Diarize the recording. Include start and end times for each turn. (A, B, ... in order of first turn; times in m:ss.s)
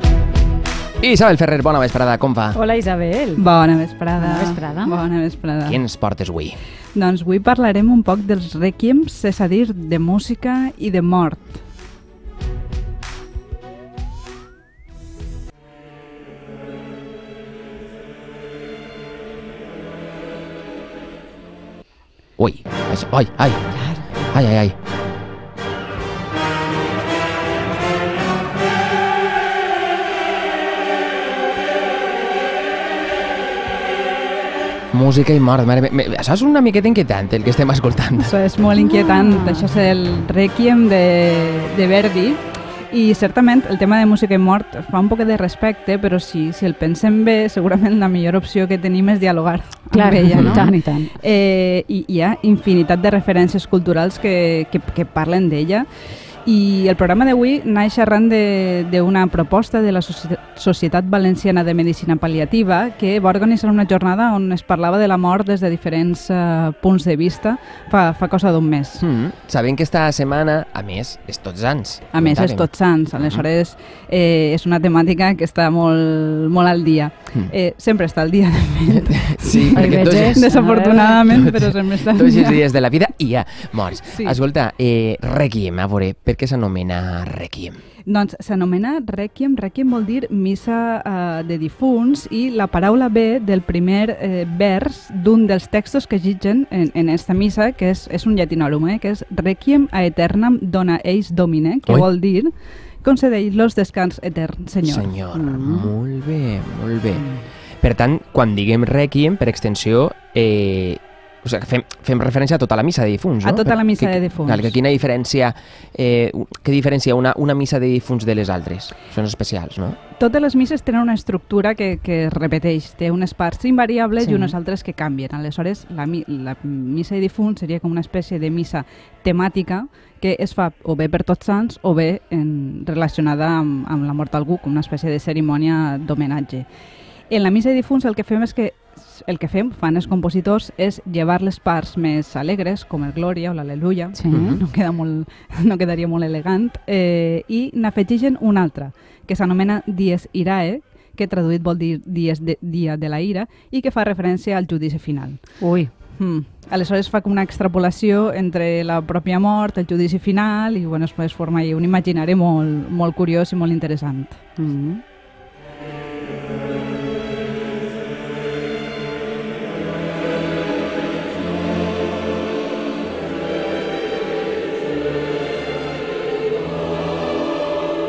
0:01.0-0:02.6 A
0:02.5-0:03.4 B
0:03.4-0:05.8 C
0:04.2-0:05.0 B
0:05.6-0:06.6 A
0:07.0-0:11.6 C
0:22.4-0:23.6 A
0:24.3-0:24.8 A
0:34.9-0:38.3 A
0:38.2-0:55.9 C
0:38.8-0:39.7 B
0:49.9-0:51.2 B
0:50.4-0:50.7 A
0:56.4-1:09.0 C
1:09.0-1:13.4 A
1:12.1-1:22.6 C
1:19.3-1:20.5 A
1:19.8-1:21.4 B
1:21.3-1:27.8 A
1:24.1-1:24.4 C
1:28.1-1:45.1 C
1:44.8-1:47.3 A
1:45.3-1:45.9 B
1:47.8-2:00.0 A
1:53.4-1:54.8 C
2:00.2-2:16.7 C
2:04.2-2:04.6 B
2:17.3-2:44.4 C
2:24.2-2:24.6 B
2:24.3-2:24.6 A
2:35.6-2:35.9 B
2:44.6-2:45.0 B